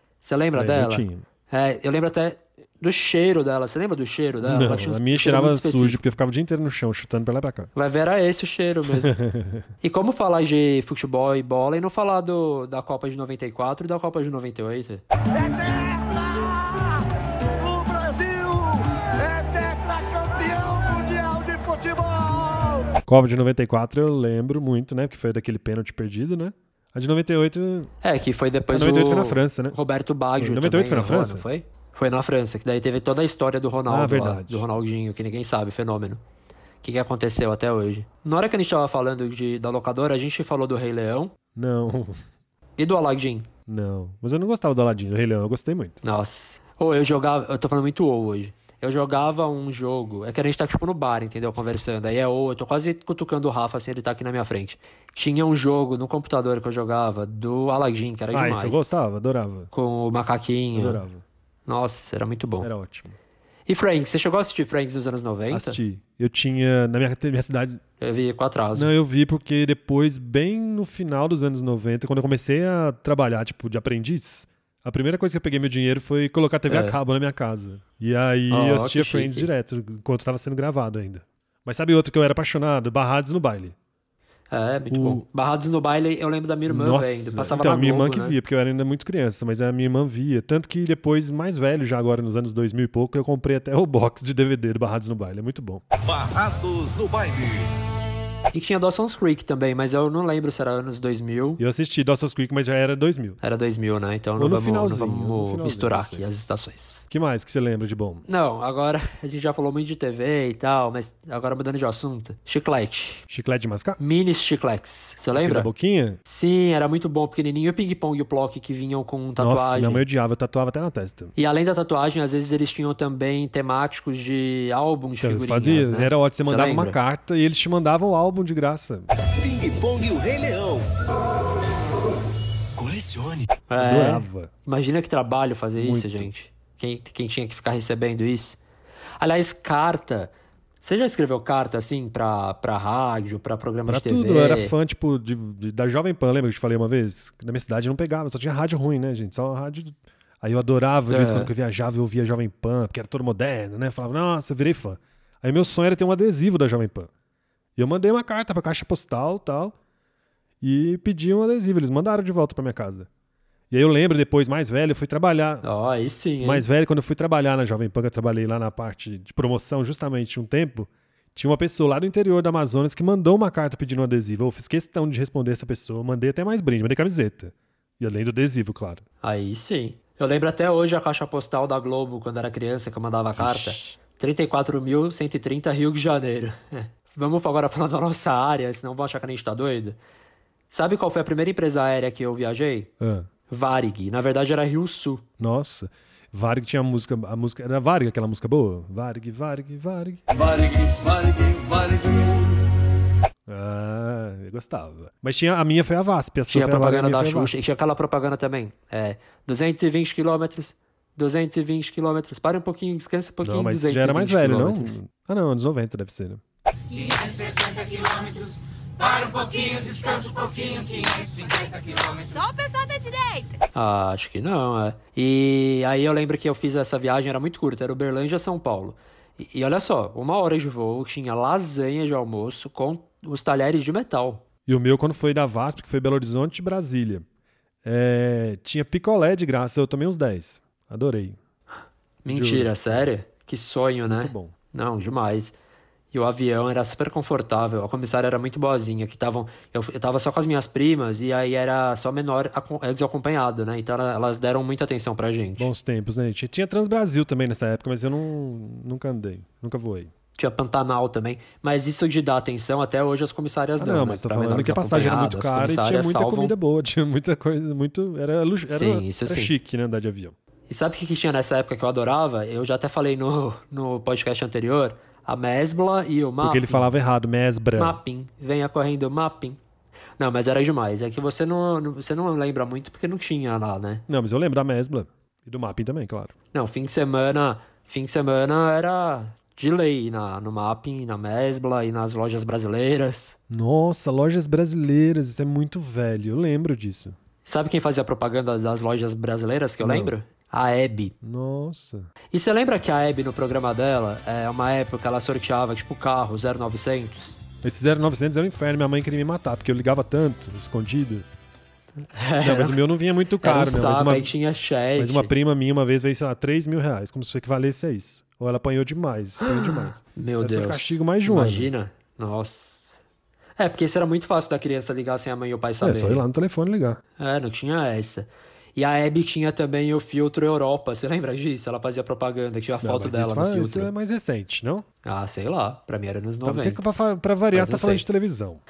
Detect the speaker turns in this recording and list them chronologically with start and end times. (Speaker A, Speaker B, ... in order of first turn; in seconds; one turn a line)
Speaker A: 0.2-6.0
Speaker B: 0.5-1.2
Speaker B: 4.4-7.7
Speaker A: 7.8-9.2
Speaker B: 9.0-9.7
Speaker A: 9.8-15.0
Speaker C: 15.3-22.9
Speaker B: 23.1-27.9
Speaker A: 28.0-36.2
Speaker B: 28.7-29.8
Speaker B: 30.4-31.5
Speaker B: 33.9-34.6
Speaker A: 36.8-41.3
Speaker B: 41.5-42.2
Speaker A: 42.8-43.5
Speaker B: 43.7-46.0
Speaker A: 46.0-58.9
Speaker B: 58.3-59.7
Speaker A: 59.7-61.0
Speaker B: 60.8-61.2
Speaker A: 61.7-62.7
Speaker B: 62.6-63.1
Speaker A: 63.7-65.8
Speaker B: 65.5-67.8
Speaker A: 68.0-68.9
Speaker B: 68.8-83.8
Speaker A: 76.7-77.0
Speaker A: 78.5-79.5
Speaker A: 84.5-88.4
Speaker B: 84.9-85.2
Speaker B: 86.7-95.8
Speaker D: 96.0-97.7
Speaker A: 98.5-101.6
Speaker B: 101.6-103.4
Speaker A: 103.4-107.1
Speaker B: 104.4-106.2
Speaker B: 107.1-108.2
Speaker A: 108.3-113.2
Speaker B: 113.3-114.0
Speaker A: 114.0-115.7
Speaker B: 115.3-116.2
Speaker A: 116.3-120.0
Speaker B: 119.4-121.3
Speaker A: 121.4-127.0
Speaker B: 125.2-129.1
Speaker D: 129.2-130.9
Speaker D: 132.8-133.5
Speaker A: 133.7-138.6
Speaker B: 133.8-134.5
Speaker B: 135.8-136.3
Speaker A: 139.2-144.7
Speaker B: 143.9-157.1
Speaker A: 151.1-151.5
Speaker B: 157.8-159.8
Speaker B: 160.6-163.1
Speaker B: 163.7-165.7
Speaker A: 165.6-166.7
Speaker B: 166.4-179.0
Speaker A: 179.2-190.0
Speaker B: 183.3-184.0
Speaker A: 190.7-192.9
Speaker B: 193.0-193.3
Speaker A: 193.5-195.2
Speaker B: 195.4-200.2
Speaker D: 200.3-202.7
Speaker B: 203.5-207.5
Speaker A: 206.5-215.0
Speaker B: 213.4-216.4
Speaker E: 221.3-223.6
Speaker A: 223.7-234.4
Speaker B: 234.7-237.2
Speaker B: 237.8-241.4
Speaker A: 242.2-245.5
Speaker B: 242.3-243.0
Speaker B: 244.1-244.5
Speaker A: 246.1-255.7
Speaker B: 255.6-260.1
Speaker A: 260.4-266.6
Speaker B: 263.8-270.4
Speaker A: 268.7-269.5
Speaker A: 270.7-276.9
Speaker B: 276.4-278.0
Speaker A: 277.8-279.6
Speaker A: 280.2-284.0
Speaker B: 284.1-286.3
Speaker A: 286.5-293.4
Speaker B: 293.5-297.2
Speaker A: 297.4-301.1
Speaker B: 299.8-300.1
Speaker B: 301.2-302.1
Speaker A: 302.3-307.4
Speaker B: 307.6-311.3
Speaker A: 312.1-312.8
Speaker B: 312.4-314.3
Speaker A: 313.4-315.3
Speaker B: 315.0-321.7
Speaker A: 319.4-323.0
Speaker A: 323.6-326.2
Speaker B: 325.8-327.0
Speaker A: 327.2-333.9
Speaker B: 332.8-334.9
Speaker A: 335.1-336.8
Speaker B: 336.4-338.6
Speaker A: 337.5-338.1